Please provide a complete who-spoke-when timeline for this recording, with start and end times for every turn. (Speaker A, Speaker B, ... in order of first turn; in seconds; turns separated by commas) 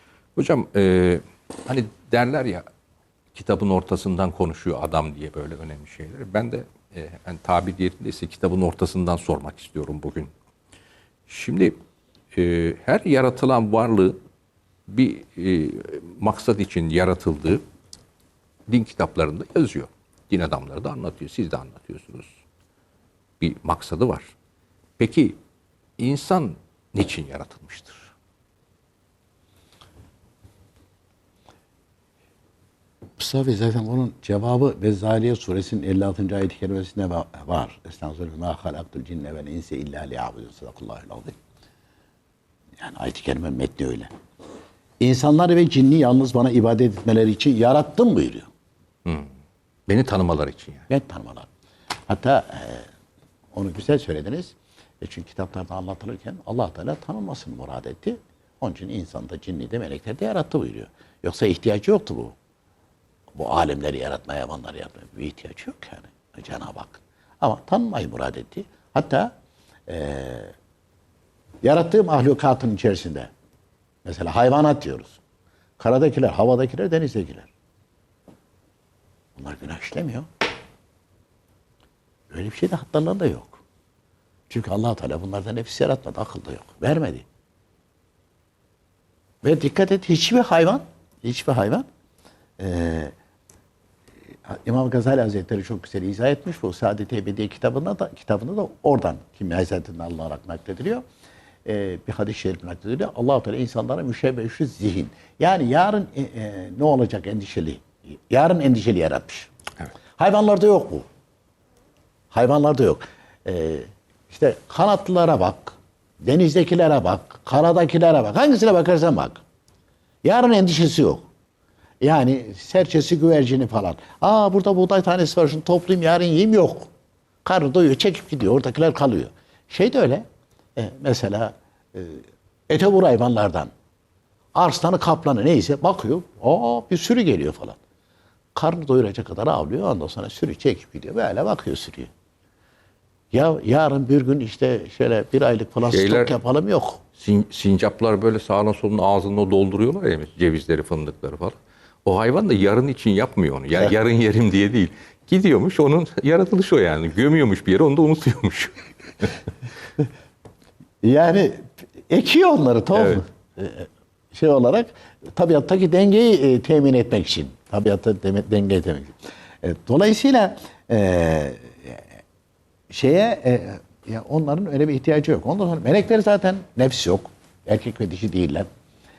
Speaker A: 0.4-2.7, Speaker A: 3.3-10.3, Speaker A: 11.3-11.8, Speaker A: 12.3-14.2, Speaker A: 14.9-17.6, Speaker A: 18.7-22.3, Speaker A: 23.4-24.3, Speaker A: 25.0-25.4, Speaker A: 26.0-28.1, Speaker B: 33.2-41.4, Speaker B: 42.8-44.1, Speaker B: 45.0-48.5, Speaker A: 49.0-49.3, Speaker A: 49.9-50.9, Speaker B: 50.9-51.5, Speaker B: 52.1-52.9, Speaker B: 53.5-62.4, Speaker B: 63.3-69.3, Speaker B: 69.9-70.5, Speaker B: 71.6-73.3, Speaker B: 74.0-75.2, Speaker B: 75.8-77.5, Speaker B: 79.4-80.3, Speaker B: 82.3-83.6, Speaker B: 84.5-87.2, Speaker B: 89.4-91.9, Speaker B: 92.6-93.1, Speaker B: 94.5-101.0, Speaker B: 101.7-109.5, Speaker B: 110.2-111.1, Speaker B: 112.3-119.4, Speaker B: 120.2-121.3, Speaker B: 122.0-126.9, Speaker B: 127.5-130.2, Speaker B: 130.8-133.7, Speaker B: 134.6-137.8, Speaker B: 138.6-142.1, Speaker B: 143.3-147.0, Speaker A: 145.9-146.3, Speaker A: 147.2-159.4, Speaker B: 161.0-172.2, Speaker A: 162.9-163.2, Speaker B: 172.9-178.7